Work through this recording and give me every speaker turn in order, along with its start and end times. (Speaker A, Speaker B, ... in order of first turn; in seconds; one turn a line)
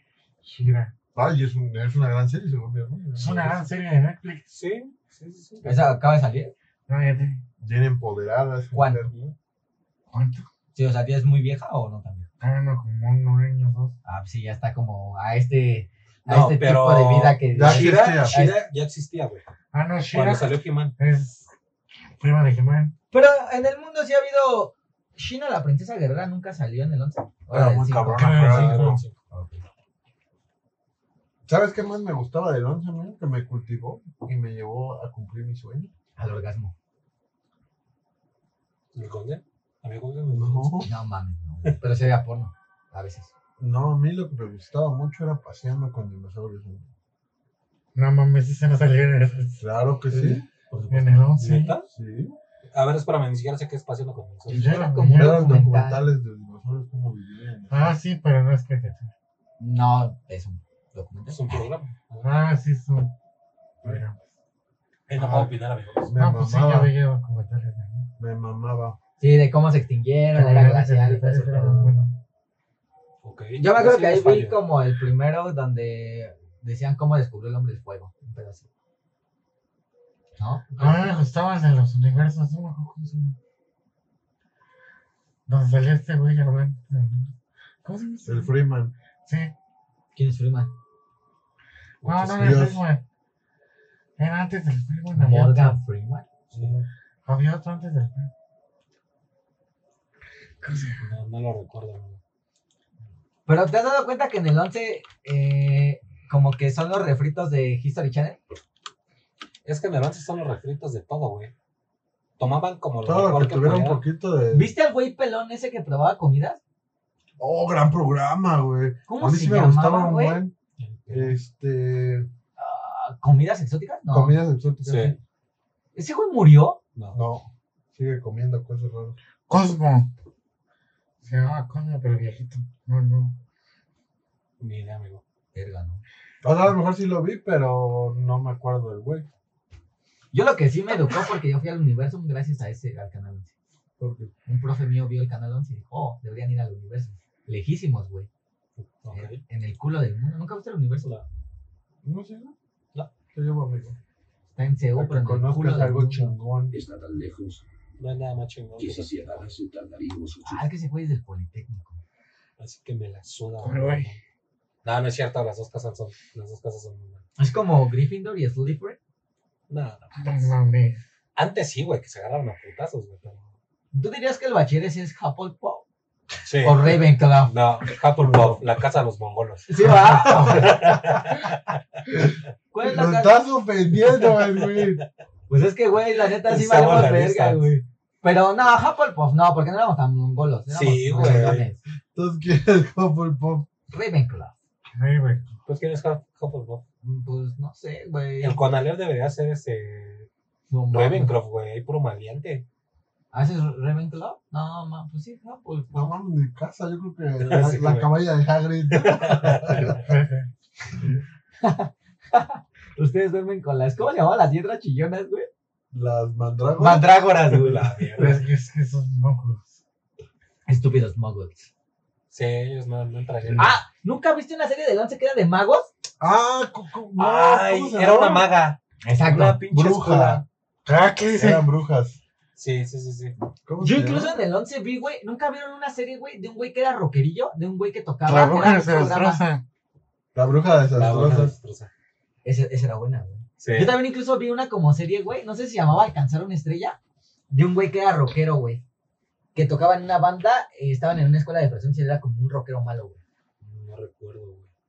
Speaker A: 0.4-0.9
Speaker B: 1.1-3.6
Speaker A: 3.1-4.5
Speaker C: 4.5-5.9
Speaker D: 5.6-6.5
Speaker A: 6.9-7.4
Speaker B: 7.6-9.1
Speaker D: 8.7-9.1
Speaker A: 10.1-10.5
Speaker D: 10.8-12.3
Speaker A: 12.4-13.9
Speaker D: 14.1-18.6
Speaker C: 16.3-19.4
Speaker B: 17.5-18.4
Speaker A: 19.7-21.5
Speaker C: 20.1-20.9
Speaker A: 22.2-22.9
Speaker D: 23.1-28.4
Speaker B: 27.5-29.0
Speaker A: 28.1-29.0
Speaker C: 28.3-29.1
Speaker D: 29.3-29.6
Speaker B: 31.5-35.9
Speaker D: 36.2-36.7
Speaker C: 38.9-40.9
Speaker B: 40.3-40.9
Speaker D: 40.9-43.3
Speaker B: 43.6-46.9
Speaker A: 48.0-49.6
Speaker B: 49.6-50.7
Speaker D: 50.7-51.2
Speaker A: 50.9-51.7
Speaker C: 51.4-51.9
Speaker B: 51.7-52.4
Speaker C: 52.7-54.7
Speaker A: 54.5-55.6
Speaker D: 54.5-56.1
Speaker B: 55.1-58.0
Speaker A: 57.7-59.1
Speaker D: 59.6-61.7
Speaker C: 61.3-62.3
Speaker A: 62.2-63.1
Speaker A: 63.8-64.2
Speaker C: 65.1-66.1
Speaker A: 65.1-65.5
Speaker B: 66.0-66.9
Speaker A: 66.2-68.1
Speaker B: 68.2-69.0
Speaker D: 69.2-71.9
Speaker A: 70.3-72.2
Speaker C: 73.2-74.6
Speaker D: 73.6-78.7
Speaker D: 80.4-80.7
Speaker C: 80.8-81.1
Speaker A: 80.8-83.4
Speaker A: 85.5-88.5
Speaker B: 88.2-88.9
Speaker A: 89.2-89.5
Speaker D: 90.2-90.7
Speaker C: 92.0-92.7
Speaker A: 92.0-93.0
Speaker B: 92.3-92.8
Speaker A: 94.2-95.8
Speaker D: 95.1-96.2
Speaker B: 96.5-96.9
Speaker A: 97.3-98.3
Speaker A: 100.6-101.1
Speaker C: 101.0-102.2
Speaker D: 103.5-108.4
Speaker C: 109.7-111.5
Speaker C: 112.4-114.0
Speaker B: 113.0-114.7
Speaker D: 114.5-116.6
Speaker B: 117.4-120.5
Speaker D: 119.1-120.4
Speaker C: 120.8-121.3
Speaker B: 121.1-122.3
Speaker D: 122.6-124.4
Speaker B: 124.1-125.2
Speaker C: 124.8-125.2
Speaker D: 126.0-126.8
Speaker B: 127.1-129.2
Speaker A: 129.5-130.1
Speaker A: 131.2-133.4
Speaker C: 134.6-135.2
Speaker D: 135.5-136.0
Speaker B: 136.4-139.3
Speaker D: 140.3-143.5
Speaker B: 144.0-144.3
Speaker D: 144.5-148.3
Speaker C: 148.8-149.4
Speaker D: 149.1-151.2
Speaker B: 152.0-152.6
Speaker B: 153.3-154.0
Speaker D: 154.5-156.3
Speaker B: 154.9-156.8
Speaker E: 156.7-157.6
Speaker C: 158.0-159.6
Speaker E: 158.8-160.7
Speaker D: 160.4-162.0
Speaker C: 162.6-164.2
Speaker A: 163.6-164.1
Speaker C: 164.8-167.2
Speaker D: 167.4-169.0
Speaker C: 169.7-170.5
Speaker A: 170.2-171.0
Speaker C: 171.4-173.5
Speaker D: 173.9-175.8
Speaker C: 176.4-181.8
Speaker D: 176.6-177.5
Speaker B: 178.2-178.7
Speaker D: 179.7-180.8
Speaker B: 180.0-180.5
Speaker A: 180.2-180.7
Speaker B: 182.2-185.0
Speaker D: 182.7-183.4
Speaker C: 184.2-185.0
Speaker D: 185.5-191.8
Speaker C: 186.4-187.7
Speaker C: 190.7-191.7
Speaker B: 191.1-193.7
Speaker D: 193.9-194.6
Speaker A: 194.9-195.5
Speaker C: 195.7-196.8
Speaker D: 197.0-198.6
Speaker C: 198.4-200.3
Speaker D: 200.7-201.3
Speaker C: 200.9-202.7
Speaker D: 203.3-206.0
Speaker B: 205.9-210.0
Speaker C: 207.4-208.1
Speaker C: 208.9-210.0
Speaker A: 209.9-210.5
Speaker D: 211.6-215.5
Speaker B: 215.9-217.1
Speaker D: 216.8-217.9
Speaker C: 217.5-218.4
Speaker A: 218.2-219.7
Speaker D: 220.7-221.7
Speaker C: 222.3-223.8
Speaker D: 223.6-225.9
Speaker B: 226.2-228.5
Speaker C: 227.2-230.4
Speaker D: 229.0-229.6
Speaker B: 229.7-230.4
Speaker A: 230.9-231.7
Speaker B: 231.3-232.2
Speaker C: 232.6-233.3
Speaker B: 233.6-234.4
Speaker D: 233.8-239.4
Speaker A: 238.3-239.6
Speaker B: 240.3-241.5
Speaker C: 240.9-241.9
Speaker D: 242.4-247.0
Speaker C: 243.6-244.0
Speaker D: 247.5-248.8
Speaker D: 249.6-253.2
Speaker C: 253.6-254.7